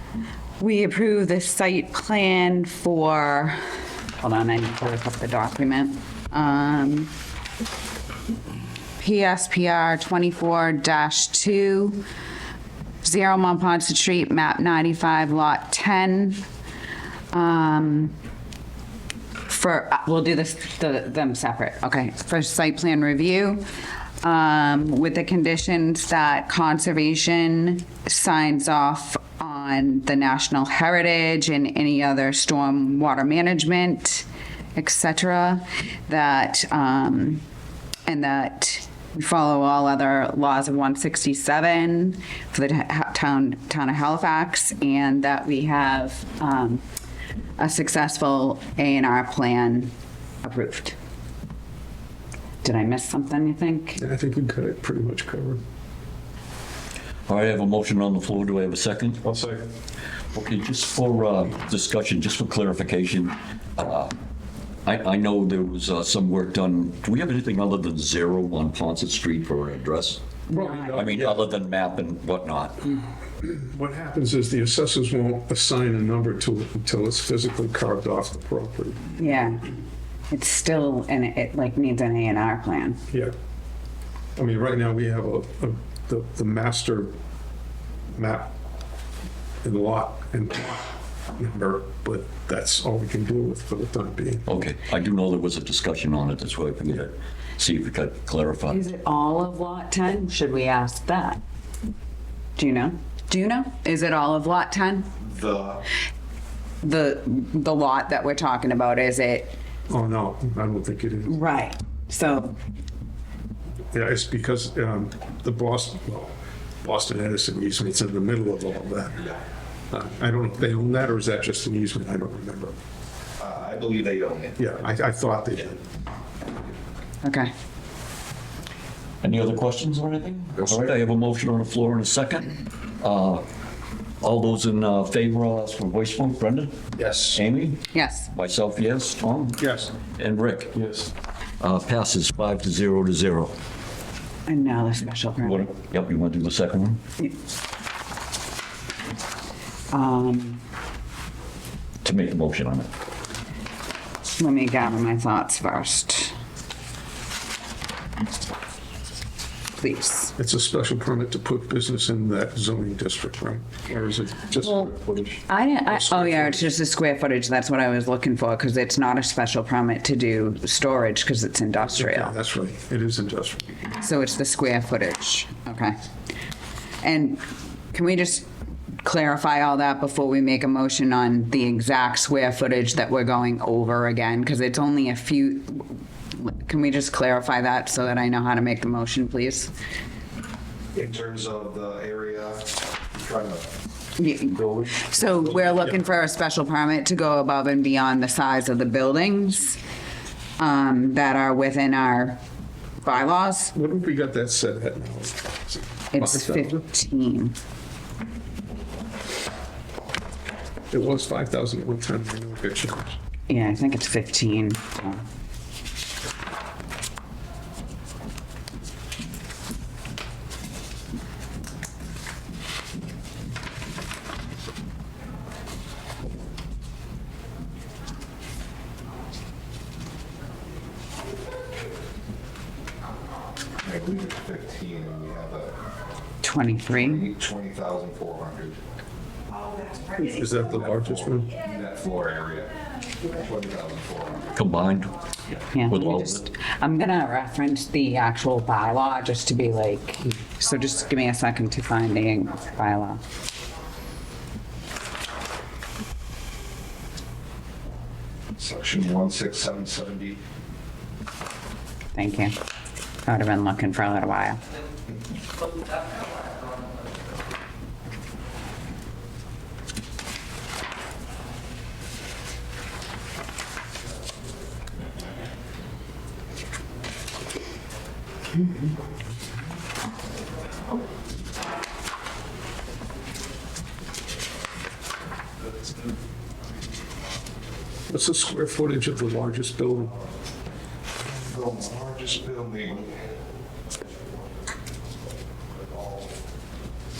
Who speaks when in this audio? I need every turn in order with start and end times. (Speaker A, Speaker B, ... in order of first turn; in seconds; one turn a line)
Speaker A: 0.6-3.6
Speaker A: 4.2-7.1
Speaker A: 9.0-12.0
Speaker A: 13.0-16.4
Speaker A: 17.3-18.1
Speaker A: 19.5-23.6
Speaker A: 24.2-37.4
Speaker A: 38.0-46.8
Speaker A: 47.6-49.9
Speaker A: 50.4-51.0
Speaker A: 52.6-54.0
Speaker B: 54.0-55.6
Speaker C: 57.3-59.2
Speaker B: 59.2-59.6
Speaker C: 60.3-64.1
Speaker C: 64.8-70.2
Speaker A: 70.5-71.0
Speaker B: 70.5-71.4
Speaker C: 70.9-72.9
Speaker B: 73.4-79.2
Speaker A: 79.2-79.7
Speaker A: 80.3-83.0
Speaker B: 84.3-87.1
Speaker B: 88.1-88.5
Speaker B: 89.6-94.5
Speaker C: 94.5-98.8
Speaker A: 98.7-101.4
Speaker A: 102.5-105.1
Speaker D: 105.2-105.9
Speaker A: 106.8-109.5
Speaker B: 109.9-111.4
Speaker A: 111.3-112.6
Speaker B: 113.9-119.3
Speaker B: 119.9-122.7
Speaker D: 123.4-124.6
Speaker B: 124.6-125.8
Speaker A: 127.2-127.5
Speaker C: 129.2-133.4
Speaker C: 134.2-139.6
Speaker B: 137.0-137.3
Speaker A: 137.9-138.3
Speaker B: 139.6-139.9
Speaker C: 140.2-140.9
Speaker B: 140.8-141.1
Speaker C: 141.6-143.5
Speaker A: 144.4-145.7
Speaker C: 145.4-147.0
Speaker A: 149.9-150.6
Speaker C: 152.0-152.9
Speaker A: 154.4-156.3
Speaker A: 159.8-160.3
Speaker B: 160.3-166.7
Speaker A: 164.6-164.9
Speaker A: 165.4-172.3
Speaker B: 171.9-173.8
Speaker A: 174.0-176.0
Speaker A: 177.0-178.5
Speaker A: 179.0-189.7
Speaker D: 190.9-193.7
Speaker A: 194.2-199.8
Speaker B: 195.6-195.9
Speaker A: 200.6-202.4
Speaker A: 203.0-203.7
Speaker B: 203.7-206.8
Speaker A: 206.1-207.6
Speaker B: 210.9-213.2
Speaker A: 213.5-215.2
Speaker D: 233.8-235.7
Speaker A: 236.4-237.3
Speaker D: 236.9-238.8
Speaker B: 240.2-241.5
Speaker D: 240.9-244.5
Speaker C: 244.5-245.1
Speaker A: 245.7-253.2
Speaker C: 245.9-246.4
Speaker D: 258.6-260.4
Speaker A: 262.1-262.6
Speaker A: 263.2-264.6
Speaker B: 288.1-290.1
Speaker D: 291.2-293.2